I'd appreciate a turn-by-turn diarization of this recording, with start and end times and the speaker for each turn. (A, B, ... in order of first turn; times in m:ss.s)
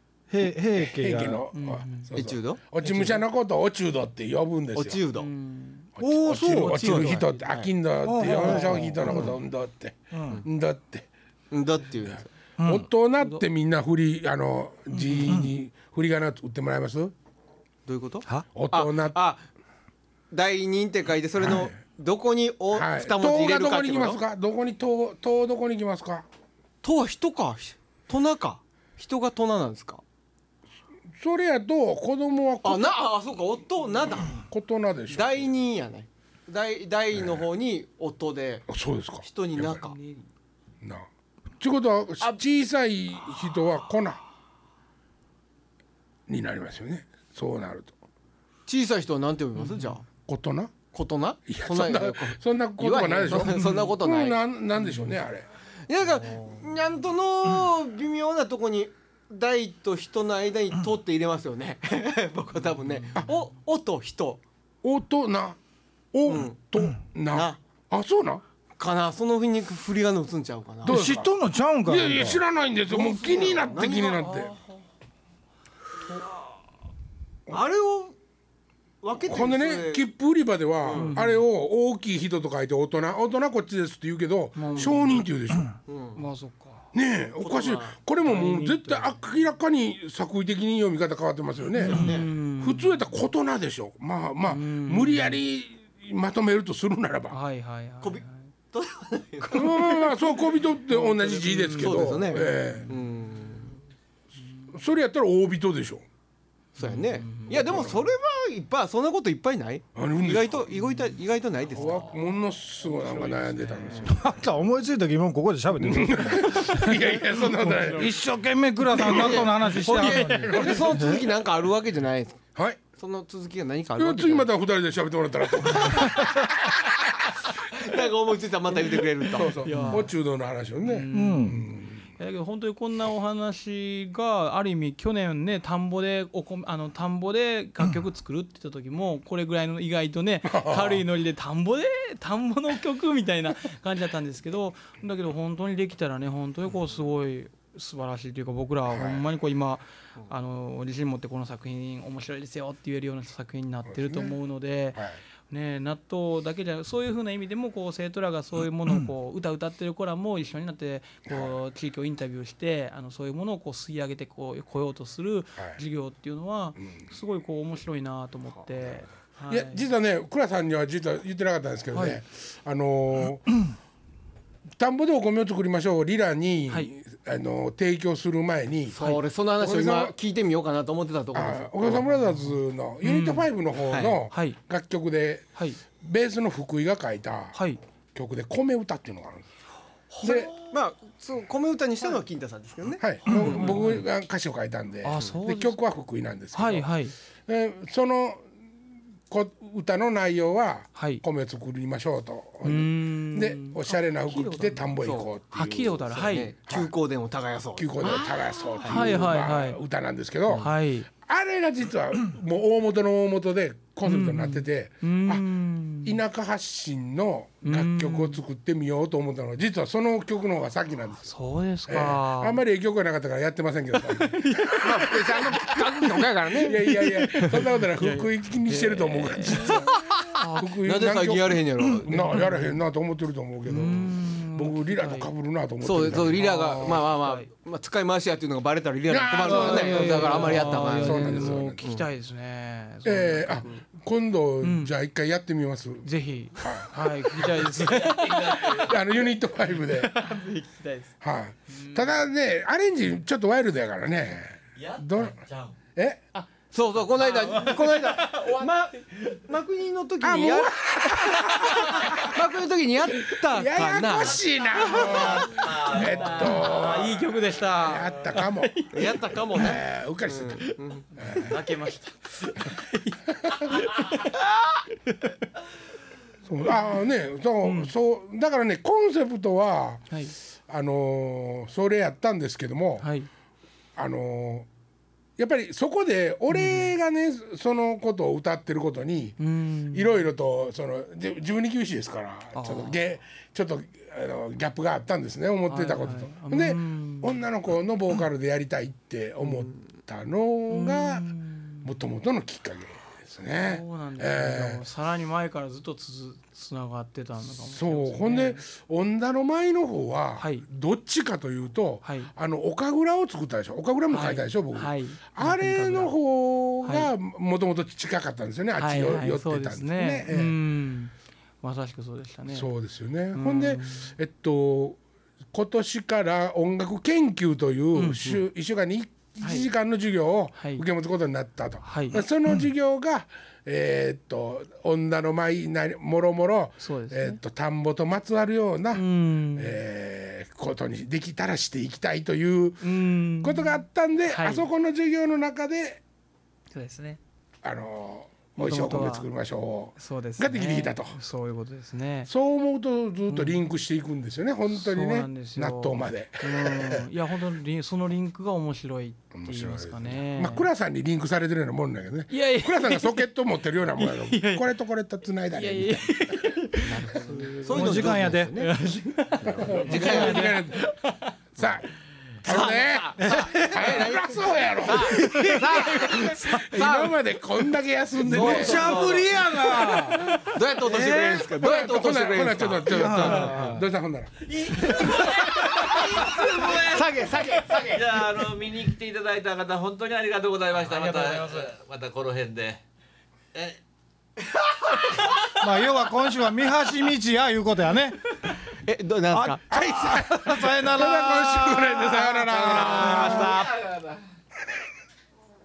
0:00.3-0:01.4 A
0:00.8-0:05.0 B
0:01.5-0:02.1 C
0:02.1-0:03.2 D
0:04.7-0:05.3 D
0:05.2-0:07.4 C
0:06.0-0:11.1 B
0:06.0-0:07.2 A
0:06.9-0:07.7 D
0:08.0-0:09.3 A
0:08.2-0:09.4 D
0:10.1-0:10.4 A
0:11.5-0:12.3 D
0:12.6-0:12.9 A
0:12.6-0:17.1 B
0:13.2-0:13.4 C
0:14.9-0:15.5 A
0:17.9-0:19.4 D
0:18.5-0:19.2 B
0:20.3-0:24.2 D
0:22.7-0:26.2 B
0:26.8-0:30.0 D
0:31.2-0:32.9 B
0:32.6-0:34.4 D
0:34.5-0:35.5 B
0:35.1-0:38.7 D
0:38.7-0:39.8 B
0:39.2-0:39.9 D
0:39.8-0:40.2 C
0:40.8-0:41.1 B
0:41.6-0:44.2 B
0:46.3-0:47.9 B
0:48.7-0:50.0 D
0:49.6-0:49.9 C
0:50.2-0:50.8 B
0:50.9-0:54.4 D
0:51.5-0:55.5 B
0:55.9-1:04.4 D
1:04.8-1:05.6 B
1:06.1-1:08.4 B
1:06.3-1:06.6 D
1:07.3-1:07.6 D
1:08.8-1:11.0 D
1:10.8-1:14.5 B
1:10.8-1:12.4 A
1:12.9-1:14.3 D
1:14.2-1:14.7 C
1:17.5-1:18.1 D
1:19.0-1:20.1 D
1:19.3-1:25.7 B
1:20.8-1:21.1 D
1:21.0-1:21.4 C
1:24.6-1:25.2 C
1:24.7-1:25.0 D
1:25.9-1:26.2 D
1:26.2-1:26.9 C
1:26.9-1:37.4 B
1:27.4-1:28.0 D
1:28.2-1:29.2 C
1:31.8-1:33.0 C
1:31.9-1:32.3 D
1:34.4-1:35.4 C
1:37.3-1:38.4 C
1:38.0-1:40.2 D
1:39.5-1:42.9 B
1:40.9-1:42.9 C
1:41.8-1:43.7 D
1:44.7-1:46.0 B
1:46.8-1:47.6 C
1:46.8-1:52.0 D
1:47.5-1:48.0 B
1:49.9-1:50.7 B
1:51.7-1:54.2 B
1:51.9-1:52.1 C
1:52.8-1:54.1 C
1:54.0-2:01.2 A
1:55.8-1:58.2 B
1:57.6-1:58.1 C
1:58.9-2:02.4 D
1:59.7-2:00.8 C
2:00.5-2:00.8 B
2:02.5-2:02.8 B
2:03.0-2:04.5 D
2:04.0-2:06.8 B
2:05.6-2:06.3 D
2:07.7-2:09.5 D
2:09.3-2:12.0 B
2:09.6-2:10.1 C
2:09.7-2:10.0 A
2:10.8-2:49.8 C
2:11.1-2:11.6 A
2:20.5-2:21.0 B
2:28.9-2:29.2 B
2:33.9-2:34.4 B
2:41.3-2:41.5 B
2:49.5-2:53.6 B
2:51.9-2:52.2 C
2:54.8-2:59.0 B
2:58.9-3:02.1 D
2:59.6-3:00.1 B
3:01.3-3:05.5 B
3:03.0-3:03.5 C
3:03.9-3:04.2 D
3:04.3-3:04.6 C
3:06.0-3:07.6 B
3:07.5-3:07.8 C
3:08.1-3:09.4 B
3:10.1-3:14.0 D
3:10.2-3:10.5 B
3:13.0-3:16.9 B
3:13.4-3:14.0 C
3:15.0-3:15.8 C
3:16.5-3:17.1 C
3:17.5-3:18.4 B
3:19.3-3:26.0 B
3:20.9-3:21.2 C
3:22.6-3:24.9 C
3:25.0-3:25.3 D
3:25.5-3:26.5 C
3:26.0-3:29.2 D
3:27.8-3:35.5 B
3:28.0-3:29.8 C
3:30.6-3:31.1 C
3:34.0-3:36.2 C
3:36.0-3:41.3 B
3:37.6-3:38.4 C
3:41.2-3:42.6 C
3:41.9-3:45.2 B
3:44.0-3:46.2 C
3:44.8-3:47.0 D
3:46.6-3:56.4 B
3:46.9-3:50.7 C
3:50.8-3:52.5 D
3:52.3-3:52.8 C
3:53.7-3:55.3 C
3:55.8-4:02.0 D
3:56.3-3:57.5 C
3:59.1-4:01.8 B
3:59.4-4:03.7 C
4:03.0-4:06.0 B
4:04.6-4:04.9 C
4:06.0-4:08.9 C
4:06.6-4:10.1 B
4:08.1-4:08.9 E
4:09.9-4:11.1 C
4:11.2-4:15.4 B
4:11.7-4:12.1 C
4:14.8-4:15.7 E
4:16.7-4:20.7 D
4:17.2-4:18.7 C
4:20.2-4:22.3 B
4:21.5-4:22.0 C
4:21.6-4:25.4 D
4:23.5-4:28.7 B
4:24.8-4:29.4 C
4:25.4-4:26.6 E
4:28.9-4:31.4 D
4:29.5-4:30.6 B
4:31.2-4:31.5 B
4:31.5-4:34.5 C
4:36.4-4:40.1 B
4:37.6-4:37.9 C
4:40.7-4:43.1 B
4:43.0-4:43.3 C
4:44.0-4:44.7 B
4:45.4-5:04.8 B
4:46.5-4:46.9 C
4:49.4-4:50.2 C
4:52.5-4:53.0 C
4:55.7-4:57.4 C
5:00.7-5:01.8 C
5:03.6-5:08.6 C
5:07.7-5:20.6 B
5:10.4-5:10.6 C
5:12.0-5:12.3 C
5:14.1-5:16.1 C
5:16.8-5:17.1 C
5:18.8-5:22.7 C
5:22.5-5:25.0 B
5:23.3-5:24.1 C
5:25.5-5:46.0 B
5:27.9-5:28.2 C
5:29.4-5:29.7 C
5:30.6-5:30.8 C
5:31.8-5:32.2 C
5:36.8-5:37.4 C
5:38.9-5:39.8 C
5:42.8-5:44.7 C
5:46.7-5:47.2 C
5:47.6-5:51.2 B
5:48.6-5:49.3 C
5:50.0-5:52.3 C
5:52.3-5:57.0 B
5:53.3-5:53.6 C
5:54.7-6:00.7 C
5:59.3-6:06.2 B
6:02.3-6:03.3 C
6:04.0-6:04.7 C
6:05.5-6:11.3 C
6:06.9-6:08.8 D
6:07.7-6:08.5 A
6:09.4-6:10.8 B
6:09.4-6:10.5 D
6:09.9-6:10.2 A
6:11.6-6:11.9 B
6:12.4-6:19.2 B
6:12.4-6:17.2 D
6:13.2-6:13.6 A
6:15.1-6:15.8 C
6:18.2-6:20.2 A
6:18.2-6:23.5 D
6:20.8-6:21.5 A
6:21.4-6:24.3 B
6:22.9-6:23.8 A
6:24.5-6:32.8 E
6:24.7-6:28.2 D
6:31.0-6:31.6 C
6:34.9-6:35.4 E
6:35.5-6:38.3 A
6:38.8-6:40.6 D
6:39.3-6:41.8 A
6:39.7-6:43.6 B
6:41.3-6:44.0 D
6:42.9-6:43.5 A
6:43.5-6:44.0 E